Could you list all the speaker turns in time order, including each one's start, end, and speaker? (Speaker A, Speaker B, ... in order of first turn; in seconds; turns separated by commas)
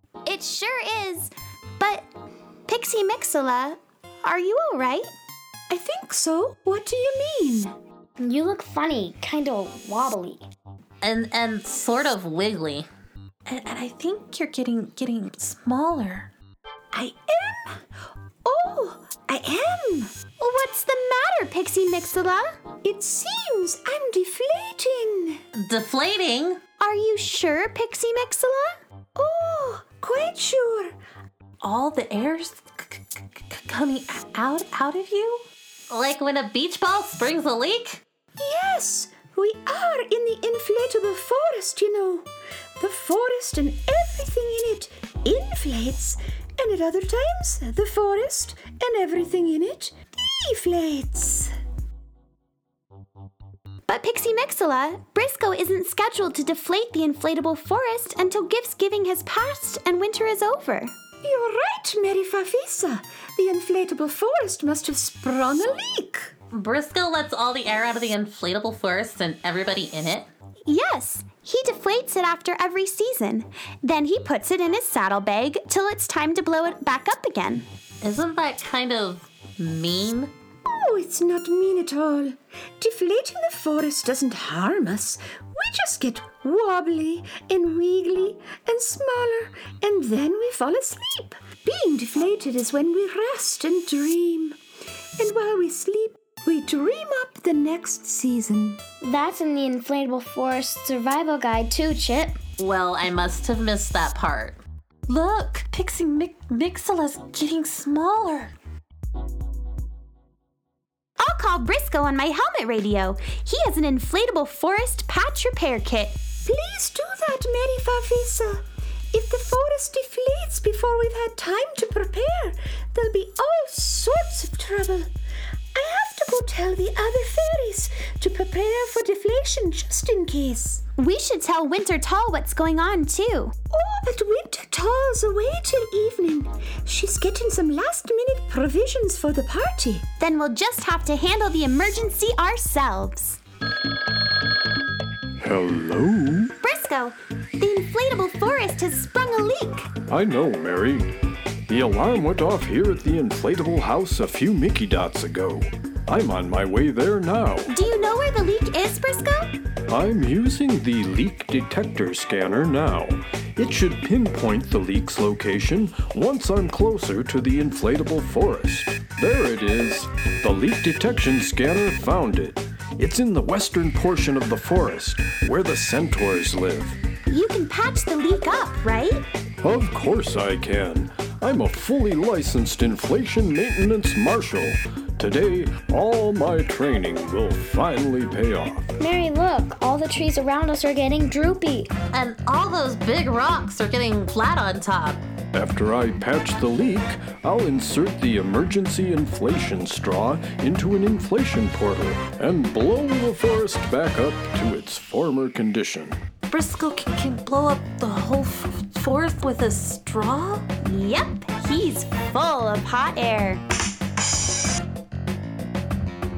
Speaker A: 0.3-2.1, Speaker A: 2.7-5.1, Speaker B: 5.7-7.8, Speaker C: 8.2-10.4, Speaker D: 11.0-12.9, Speaker D: 13.5-16.3, Speaker B: 16.9-17.8, Speaker B: 18.4-20.1, Speaker A: 20.4-22.6, Speaker B: 22.8-25.4, Speaker D: 25.5-26.6, Speaker A: 26.8-28.8, Speaker B: 29.2-30.9, Speaker D: 31.6-38.0, Speaker B: 38.4-51.5, Speaker A: 53.9-60.9, Speaker B: 61.2-66.3, Speaker D: 66.5-70.3, Speaker A: 70.7-77.7, Speaker D: 78.0-80.3, Speaker B: 80.7-94.6, Speaker B: 95.2-98.8, Speaker C: 99.0-102.4, Speaker D: 102.6-108.5, Speaker A: 111.2-116.2, Speaker B: 116.5-125.1, Speaker B: 125.7-130.8, Speaker A: 131.0-133.6, Speaker B: 133.7-140.1, Speaker A: 140.2-143.4, Speaker E: 145.4-146.5, Speaker A: 146.6-149.9, Speaker E: 150.1-151.1, Speaker E: 151.7-157.7, Speaker A: 157.7-159.6, Speaker E: 159.9-177.0, Speaker A: 177.3-179.2, Speaker E: 179.6-188.9, Speaker C: 189.0-191.9, Speaker D: 192.1-195.2, Speaker E: 195.5-206.2, Speaker D: 206.5-210.7, Speaker A: 210.8-213.6